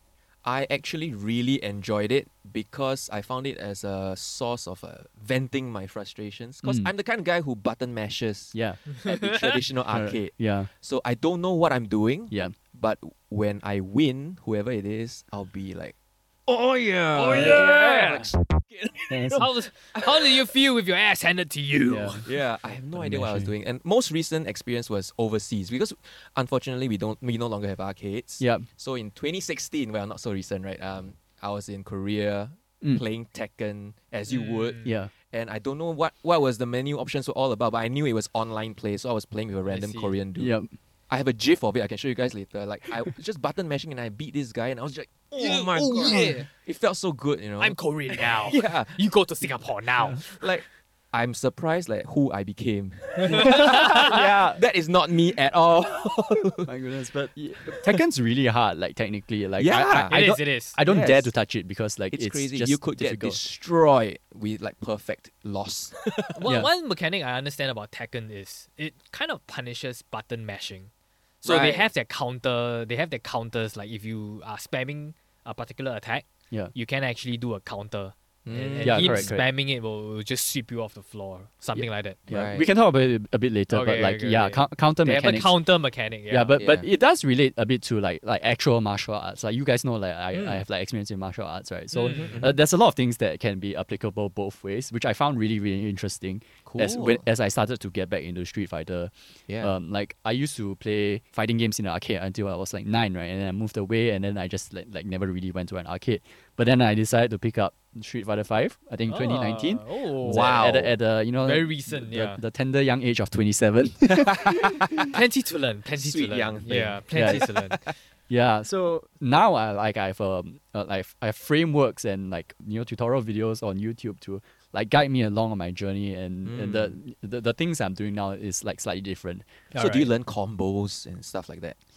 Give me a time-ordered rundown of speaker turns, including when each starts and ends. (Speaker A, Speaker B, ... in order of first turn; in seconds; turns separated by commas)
Speaker A: 0.5-15.9, Speaker B: 6.6-6.9, Speaker B: 8.5-8.8, Speaker C: 8.9-9.6, Speaker B: 9.9-10.7, Speaker A: 16.5-20.4, Speaker C: 17.1-18.3, Speaker B: 17.3-17.8, Speaker B: 19.1-19.5, Speaker C: 19.4-22.3, Speaker B: 21.9-22.2, Speaker A: 22.3-40.5, Speaker B: 22.9-23.5, Speaker B: 28.4-28.7, Speaker C: 34.3-34.9, Speaker B: 34.8-35.1, Speaker C: 39.7-40.2, Speaker B: 40.4-40.7, Speaker A: 41.1-49.0, Speaker C: 45.4-46.5, Speaker C: 47.6-50.5, Speaker A: 50.3-56.7, Speaker C: 53.2-54.2, Speaker B: 53.3-54.6, Speaker B: 56.6-63.4, Speaker A: 57.7-58.0, Speaker A: 59.6-60.2, Speaker C: 60.1-60.8, Speaker A: 60.9-61.3, Speaker A: 62.1-66.4, Speaker C: 66.3-70.9, Speaker A: 71.4-71.9, Speaker C: 71.4-82.2, Speaker A: 78.5-79.3, Speaker B: 78.8-79.5, Speaker B: 81.8-85.5, Speaker A: 82.3-82.7, Speaker C: 83.7-86.6, Speaker B: 86.3-115.1, Speaker A: 86.6-86.9, Speaker C: 91.9-92.4, Speaker A: 92.1-92.6, Speaker A: 96.7-97.2, Speaker A: 99.5-99.7, Speaker C: 109.1-110.6, Speaker A: 110.2-111.0, Speaker C: 111.4-112.4, Speaker A: 114.2-115.1, Speaker C: 115.1-117.8, Speaker A: 116.0-117.8, Speaker B: 117.1-117.5, Speaker B: 118.3-129.5, Speaker A: 126.5-127.0, Speaker C: 129.7-130.1, Speaker A: 129.8-131.8